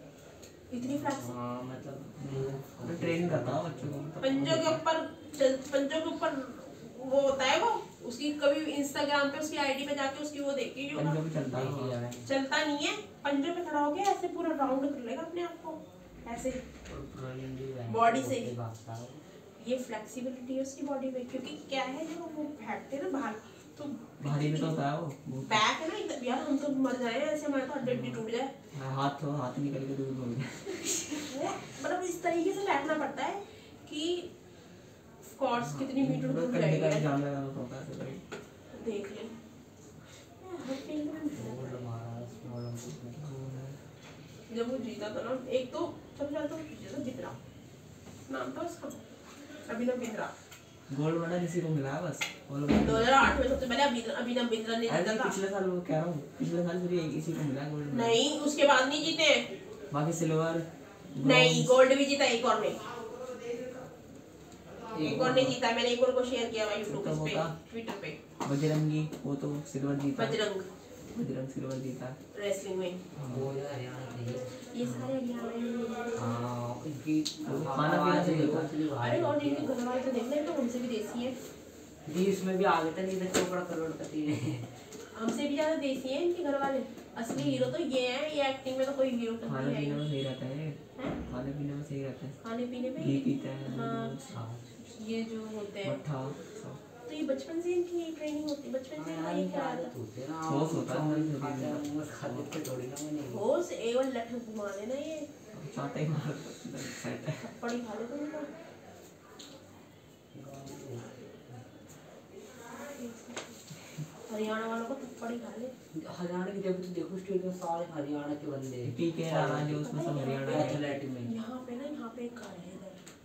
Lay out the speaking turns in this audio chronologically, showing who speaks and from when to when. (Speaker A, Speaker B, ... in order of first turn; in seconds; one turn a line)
Speaker A: 0.7-1.3
Speaker B: 0.8-4.0
Speaker C: 2.3-4.8
Speaker A: 4.2-11.2
Speaker C: 10.9-11.9
Speaker B: 11.3-12.3
Speaker A: 12.2-16.6
Speaker B: 16.9-19.2
Speaker A: 17.9-18.5
Speaker A: 19.6-24.8
Speaker C: 24.2-25.6
Speaker A: 25.4-28.5
Speaker C: 27.8-28.2
Speaker C: 28.7-31.3
Speaker A: 31.1-34.3
Speaker A: 35.2-37.1
Speaker C: 35.6-38.2
Speaker A: 38.7-39.4
Speaker A: 40.3-41.8
Speaker B: 41.3-43.2
Speaker C: 42.9-43.8
Speaker A: 44.5-47.4
Speaker A: 48.3-49.0
Speaker A: 49.6-50.3
Speaker C: 50.9-53.1
Speaker A: 52.7-55.4
Speaker C: 54.9-58.2
Speaker A: 57.9-59.5
Speaker C: 59.9-61.8
Speaker A: 61.2-62.8
Speaker B: 64.9-65.5
Speaker A: 65.0-68.2
Speaker C: 65.0-65.6
Speaker C: 66.9-67.5
Speaker C: 68.4-70.4
Speaker A: 70.1-70.7
Speaker C: 71.1-72.2
Speaker A: 72.3-73.0
Speaker C: 73.2-73.5
Speaker B: 73.2-74.5
Speaker A: 74.7-76.4
Speaker C: 74.8-75.1
Speaker B: 76.2-79.7
Speaker C: 77.4-78.7
Speaker A: 79.0-81.4
Speaker B: 82.0-84.7
Speaker A: 85.1-90.0
Speaker B: 87.3-87.7
Speaker C: 89.5-92.4
Speaker A: 92.4-94.2
Speaker C: 93.0-94.3
Speaker B: 94.3-94.7
Speaker A: 94.8-96.0
Speaker C: 95.8-96.8
Speaker A: 97.0-99.9
Speaker B: 99.0-103.4
Speaker C: 100.5-102.5
Speaker A: 103.3-105.3
Speaker C: 105.5-107.4
Speaker A: 107.4-108.5
Speaker B: 110.3-111.6
Speaker A: 113.0-113.3
Speaker A: 114.3-115.7
Speaker B: 115.9-119.9
Speaker C: 118.8-120.8
Speaker A: 119.8-123.0
Speaker B: 120.5-121.3